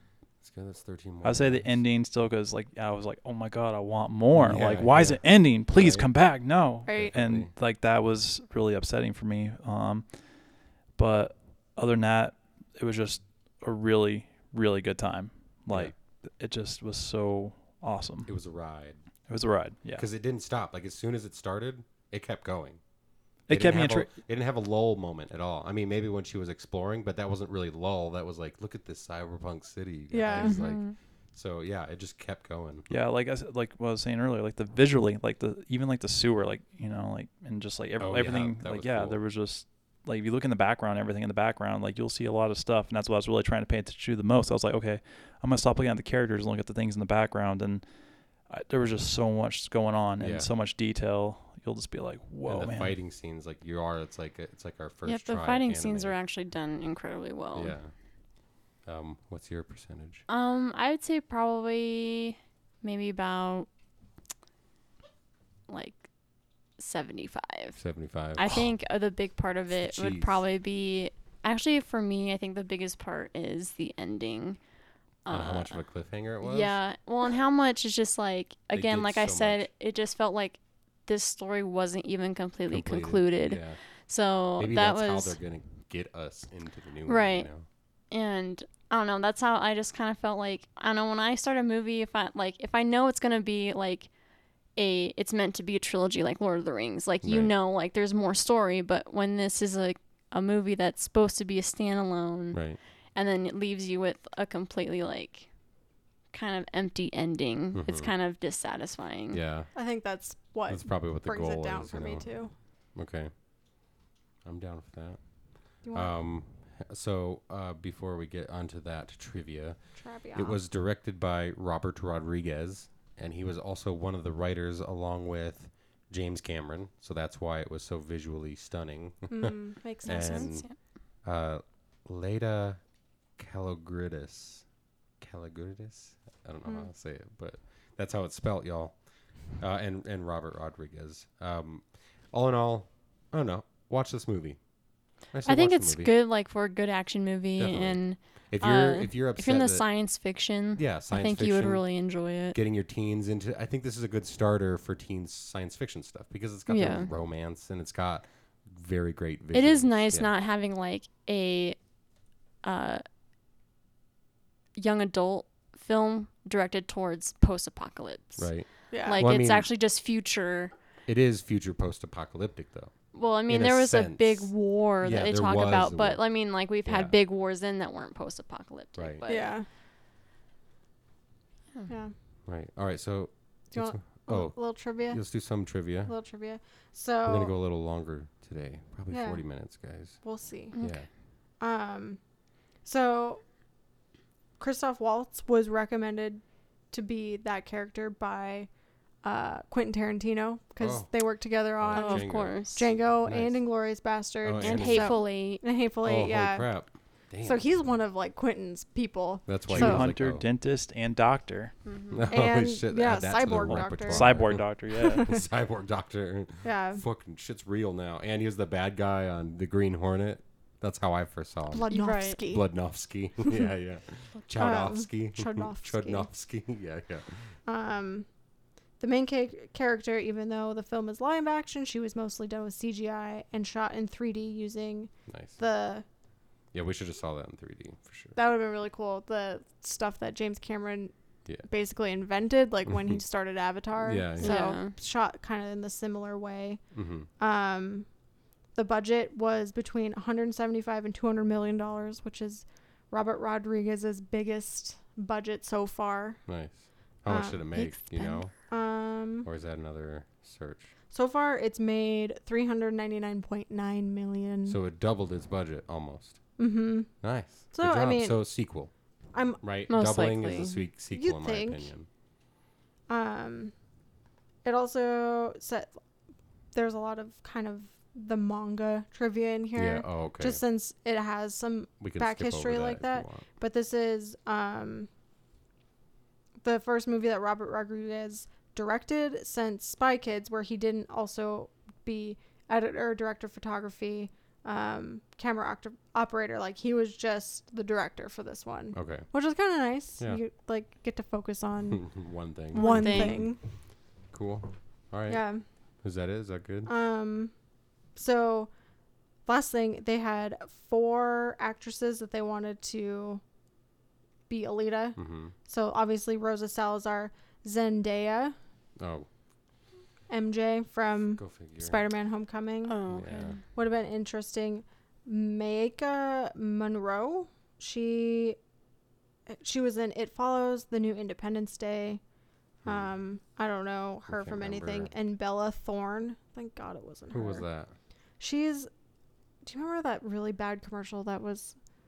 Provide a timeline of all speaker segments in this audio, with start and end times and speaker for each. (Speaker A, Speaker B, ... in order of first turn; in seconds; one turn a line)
Speaker A: 0.4-1.8
Speaker B: 1.2-10.2
Speaker A: 4.3-6.1
Speaker C: 6.9-7.1
Speaker A: 6.9-7.5
Speaker B: 10.9-18.3
Speaker A: 18.2-19.0
Speaker B: 19.3-20.1
Speaker A: 19.9-22.8
Speaker B: 23.5-24.1
Speaker A: 23.5-32.9
Speaker C: 30.1-30.6
Speaker D: 30.4-31.0
Speaker B: 32.9-47.9
Speaker A: 38.0-39.2
Speaker B: 48.5-52.9
Speaker A: 50.2-50.5
Speaker A: 52.5-56.2
Speaker D: 55.1-57.8
Speaker A: 57.5-57.9
Speaker A: 58.9-60.2
Speaker D: 60.3-63.7
Speaker D: 65.7-66.0
Speaker D: 66.8-67.8
Speaker A: 67.8-68.5
Speaker D: 68.3-74.6
Speaker A: 69.8-70.4
Speaker D: 75.2-75.8
Speaker A: 75.3-76.8
Speaker D: 76.4-85.4
Speaker A: 78.7-79.7
Speaker A: 82.7-83.8
Speaker A: 84.6-87.7
Speaker D: 87.1-87.5
Speaker D: 88.1-94.1
Speaker D: 94.8-105.5
Speaker A: 97.2-97.5
Speaker A: 102.5-102.8
Speaker D: 106.3-109.4
Speaker A: 107.7-108.1
Speaker A: 109.3-109.7
Speaker C: 109.8-112.5
Speaker A: 110.7-112.3
Speaker A: 113.0-113.3
Speaker A: 114.5-115.2
Speaker C: 115.8-116.1
Speaker A: 115.8-119.8
Speaker C: 120.0-120.6
Speaker A: 120.3-130.7
Speaker C: 129.3-130.5
Speaker D: 130.0-130.8
Speaker A: 131.2-132.8
Speaker A: 133.4-134.7
Speaker A: 135.2-139.0
Speaker A: 139.6-144.6
Speaker A: 145.3-146.1
Speaker D: 145.5-152.6
Speaker A: 147.6-149.8
Speaker A: 150.8-151.8
Speaker A: 152.5-160.3
Speaker D: 156.7-157.1
Speaker D: 159.5-161.8
Speaker D: 162.6-163.0
Speaker D: 164.8-170.7
Speaker A: 168.4-169.7
Speaker C: 168.9-169.2
Speaker A: 171.1-172.9
Speaker D: 173.1-179.6
Speaker A: 173.5-176.2
Speaker A: 176.8-177.2
Speaker A: 179.0-179.2
Speaker C: 179.3-179.7
Speaker C: 181.9-182.1
Speaker A: 182.5-186.1
Speaker C: 183.7-185.2
Speaker C: 186.1-187.6
Speaker A: 187.2-190.2
Speaker C: 189.1-189.4
Speaker C: 190.2-190.8
Speaker A: 190.8-191.1
Speaker C: 191.6-192.2
Speaker C: 192.8-193.4
Speaker C: 194.6-198.7
Speaker C: 199.2-206.7
Speaker A: 200.8-201.1
Speaker A: 201.8-203.6
Speaker D: 201.9-202.9
Speaker A: 204.4-205.2
Speaker D: 204.6-205.6
Speaker A: 206.0-207.6
Speaker C: 207.4-210.1
Speaker A: 209.5-210.5
Speaker B: 209.7-211.8
Speaker D: 211.8-212.3
Speaker A: 212.1-227.6
Speaker C: 212.3-215.4
Speaker B: 213.7-215.3
Speaker C: 216.6-217.0
Speaker C: 221.7-222.7
Speaker D: 221.9-222.4
Speaker C: 224.6-226.3
Speaker C: 227.7-228.3
Speaker C: 229.0-236.1
Speaker A: 235.3-235.6
Speaker A: 236.7-238.4
Speaker C: 238.4-241.1
Speaker C: 241.6-246.8
Speaker A: 242.9-243.2
Speaker A: 244.0-244.6
Speaker D: 244.4-244.9
Speaker A: 246.9-247.3
Speaker C: 247.4-248.1
Speaker C: 248.8-256.4
Speaker A: 256.5-258.5
Speaker C: 257.3-258.0
Speaker D: 257.8-258.4
Speaker C: 258.6-259.5
Speaker A: 259.4-260.9
Speaker C: 261.1-264.8
Speaker A: 264.7-266.4
Speaker C: 266.6-267.1
Speaker A: 267.2-268.9
Speaker C: 267.7-268.4
Speaker C: 269.3-269.6
Speaker A: 269.6-272.1
Speaker D: 269.9-270.7
Speaker C: 270.6-271.9
Speaker C: 273.1-273.7
Speaker C: 274.6-276.0
Speaker C: 276.7-285.1
Speaker A: 279.8-280.6
Speaker A: 282.0-283.5
Speaker C: 286.6-302.1
Speaker A: 298.9-299.3
Speaker A: 301.9-303.6
Speaker C: 302.7-303.6
Speaker D: 302.8-303.4
Speaker A: 304.3-305.4
Speaker C: 305.3-305.6
Speaker A: 306.0-306.9
Speaker C: 306.9-307.5
Speaker C: 308.1-308.7
Speaker C: 309.5-313.4
Speaker C: 314.5-318.6
Speaker A: 315.2-315.5
Speaker A: 319.0-319.3
Speaker C: 320.3-323.0
Speaker A: 321.4-322.0
Speaker D: 322.9-323.6
Speaker A: 323.1-323.6
Speaker C: 323.7-328.6
Speaker C: 329.5-332.2
Speaker A: 332.8-333.1
Speaker C: 332.9-337.7
Speaker A: 334.3-335.1
Speaker A: 337.3-337.9
Speaker C: 338.4-338.9
Speaker C: 339.6-341.8